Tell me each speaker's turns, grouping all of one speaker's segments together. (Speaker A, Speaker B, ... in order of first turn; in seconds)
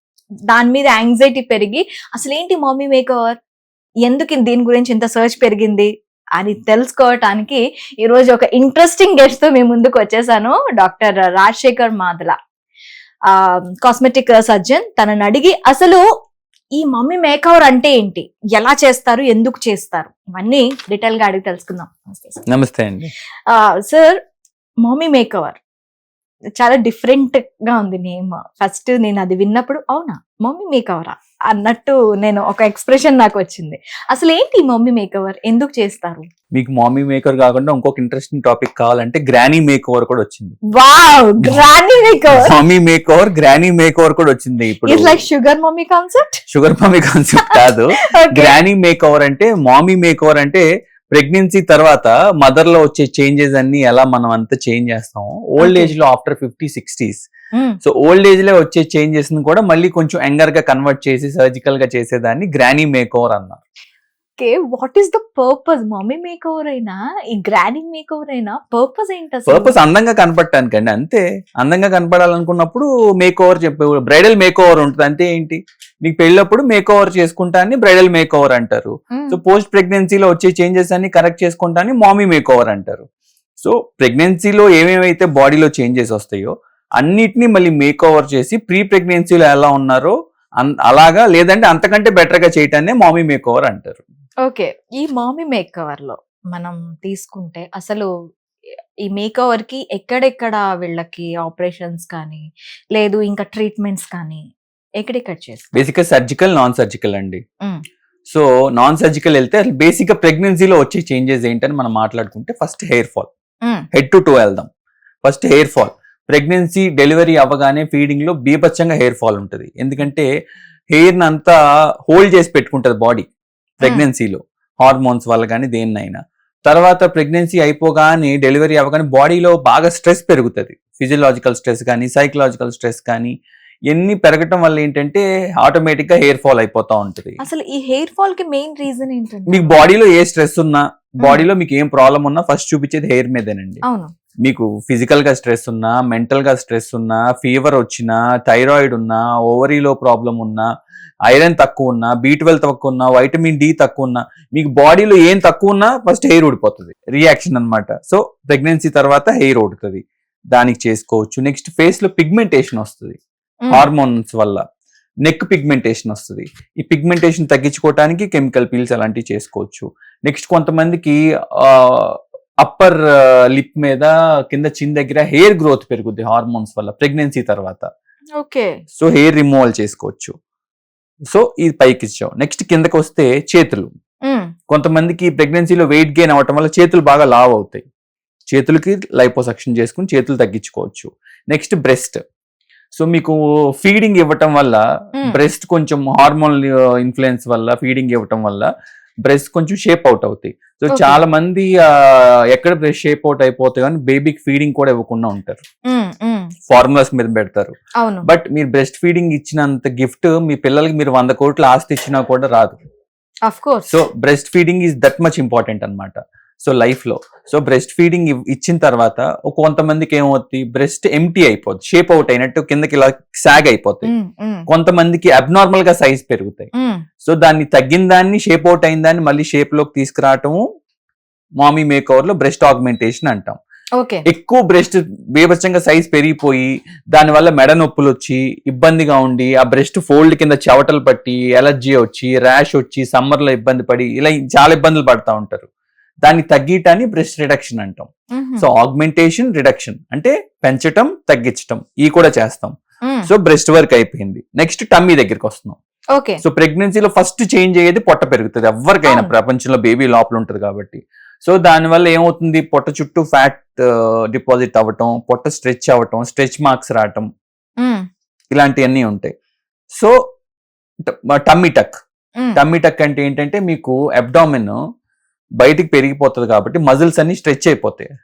Speaker A: 0.5-3.4, 4.0-12.3, 13.3-16.0, 16.8-22.4, 23.5-24.1, 24.8-25.6, 26.6-36.2, 40.7-42.5, 44.9-46.4, 48.1-48.5, 55.6-55.9, 64.4-69.7, 79.1-79.4, 94.4-98.1, 99.1-102.4, 102.9-104.4, 105.0-105.7, 137.4-139.8, 143.8-144.1, 178.4-178.7, 200.9-201.2, 205.9-206.5, 208.0-208.3, 213.4-213.9, 224.0-224.7, 234.0-234.2, 248.3-248.7
Speaker B: 22.5-23.1, 36.5-40.5, 42.3-45.2, 46.5-57.2, 57.8-63.6, 69.5-83.0, 83.6-94.0, 105.7-107.4, 108.3-113.3, 113.9-114.7, 115.2-120.3, 120.9-121.5, 122.1-123.3, 123.8-133.3, 133.9-137.4, 139.5-143.8, 144.4-150.7, 151.3-163.2, 163.7-164.6, 165.2-177.9, 178.9-180.3, 181.3-183.9, 184.7-187.8, 188.5-192.2, 192.9-198.7, 199.2-205.6, 206.7-207.7, 208.2-212.8, 213.9-224.1, 224.7-226.7, 227.2-230.6, 231.6-233.6, 234.3-245.7, 246.2-252.7, 253.2-255.8, 256.4-267.3, 268.5-269.3, 271.1-272.0, 272.5-274.8, 275.6-278.1